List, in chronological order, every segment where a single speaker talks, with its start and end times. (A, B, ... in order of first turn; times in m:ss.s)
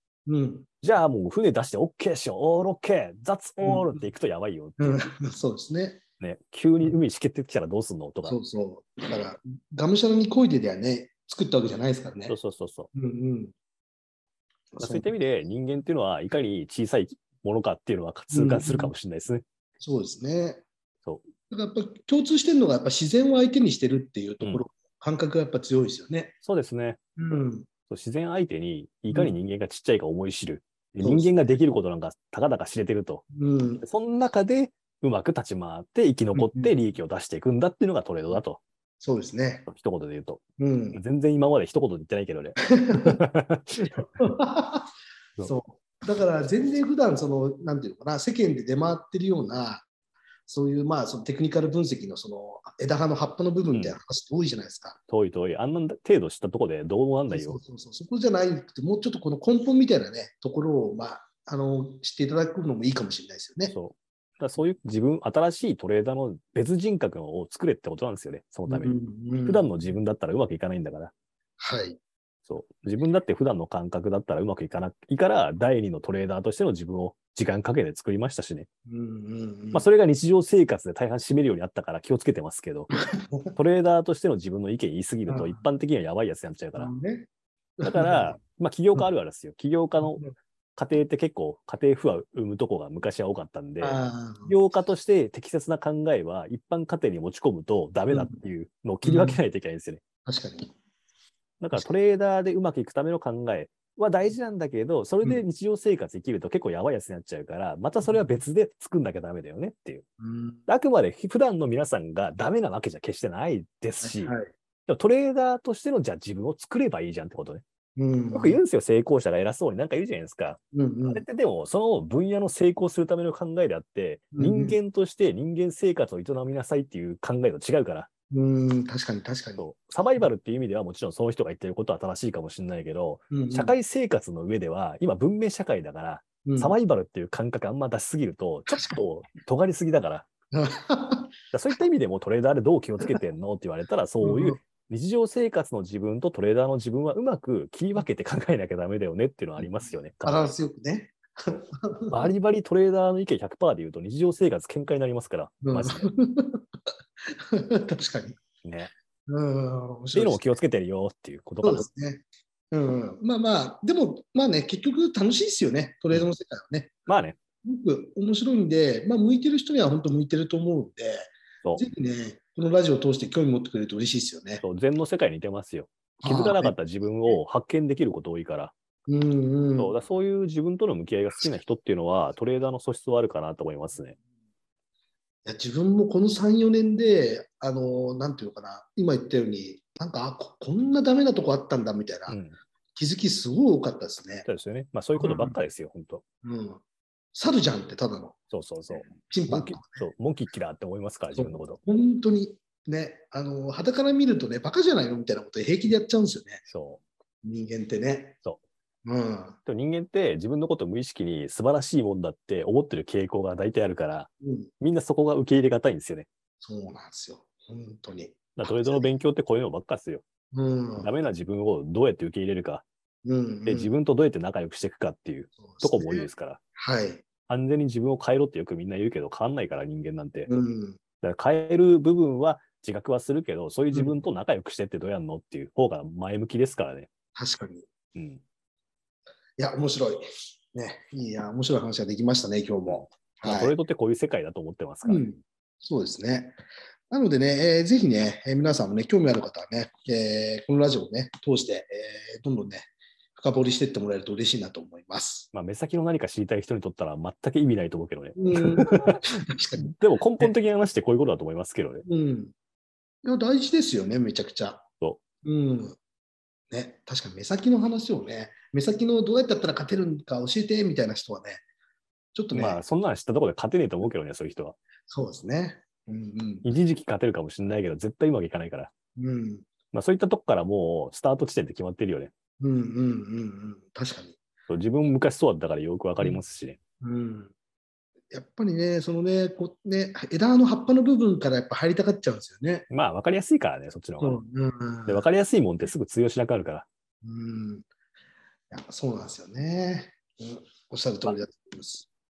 0:00.3-0:00.7 A
0:00.8-0:05.1 B
0:03.6-0:04.0 A
0:04.8-0:06.0 A
0:06.2-0:08.4 B
0:08.2-0:12.4 A
0:12.3-0:12.9 B
0:13.0-0:13.5 A
0:14.7-0:15.1 A
0:14.8-0:19.4 B
0:18.3-0:18.9 A
0:19.8-0:20.6 A
0:21.5-0:26.4 A
0:26.4-0:27.0 B
0:27.2-0:27.7 A
0:27.9-0:33.2 B
0:31.0-0:31.4 A
0:33.3-0:33.8 A
0:33.8-0:38.6 B
0:36.4-0:36.8 A
0:39.0-0:39.7 A
0:39.7-0:40.4 B
0:40.6-0:41.0 A
0:40.9-0:44.2 B
0:42.7-0:43.2 A
0:44.2-0:44.9 A
0:45.4-0:49.8 A
0:50.5-0:55.0 A
0:53.7-0:54.0 B
0:55.1-0:57.6 B
0:57.3-1:03.8 A
1:03.7-1:11.1 B
1:08.7-1:09.7 A
1:11.6-1:12.0 A
1:12.5-1:18.7 B
1:18.9-1:19.9 A
1:19.7-1:22.9 B
1:22.9-1:23.5 A
1:23.5-1:26.9 B
1:25.3-1:25.6 A
1:26.8-1:27.3 A
1:27.8-1:28.4 A
1:27.8-1:40.0 B
1:30.0-1:30.3 A
1:33.8-1:34.6 A
1:38.1-1:38.4 A
1:39.0-1:39.4 A
1:40.3-1:40.7 A
1:41.6-1:50.0 B
1:50.2-1:50.7 A
1:50.7-1:57.6 B
1:54.0-1:54.5 A
1:58.0-1:58.6 A
1:58.3-2:08.1 B
2:00.7-2:01.2 A
2:04.4-2:04.8 A
2:08.3-2:09.7 A
2:09.6-2:20.3 B
2:13.3-2:13.8 A
2:16.5-2:16.8 A
2:18.7-2:19.0 A
2:20.5-2:21.3 A
2:21.5-2:30.5 B
2:24.2-2:24.6 A
2:30.2-2:32.3 A
2:32.1-2:36.1 B
2:35.6-2:36.6 A
2:37.5-2:38.4 A
2:38.6-2:38.9 B
2:39.3-2:40.5 A
2:40.1-2:41.9 B
2:41.6-2:47.0 A
2:47.1-2:47.4 B
2:47.6-2:54.6 A
2:54.6-2:58.7 B
2:56.2-2:57.4 A
2:59.1-3:00.0 A
2:59.8-3:04.2 B
3:05.4-3:12.4 A
3:12.3-3:12.6 B
3:13.0-3:14.5 A
3:14.5-3:16.2 B
3:15.2-3:15.6 A
3:16.4-3:16.8 A
3:17.3-3:18.4 A
3:18.5-3:21.8 B
3:18.9-3:20.1 A
3:21.3-3:26.6 A
3:26.7-3:27.0 B
3:27.4-3:28.4 A
3:29.0-3:29.6 A
3:29.6-3:36.3 B
3:34.4-3:34.7 A
3:36.6-3:39.1 A
3:38.6-3:40.2 B
3:40.5-3:41.2 A
3:41.0-3:42.8 B
3:43.2-3:43.9 A
3:43.7-3:46.6 B
3:45.6-3:47.2 A
3:47.5-3:50.5 B
3:50.5-3:51.0 A
3:51.2-3:57.1 B
3:53.9-3:54.2 A
3:57.4-3:57.9 A
3:58.2-3:58.4 B
3:59.6-4:03.8 A
4:02.9-4:05.3 B
4:05.0-4:15.5 A
4:15.5-4:22.0 B
4:18.4-4:20.5 A
4:22.1-4:22.5 A
4:23.2-4:24.8 A
4:25.4-4:26.0 A
4:26.7-4:31.6 A
4:32.4-4:32.8 A
4:32.5-4:34.8 B
4:35.1-4:36.7 A
4:36.6-4:38.9 B
4:39.2-4:39.7 A
4:39.9-4:42.3 B
4:42.6-4:44.4 A
4:44.7-4:46.8 B
4:47.0-4:47.5 A
4:48.3-4:52.9 A
4:52.9-4:54.4 B
4:54.2-4:55.3 A
4:55.1-4:56.9 B
4:57.2-4:57.9 A
4:58.7-5:02.1 A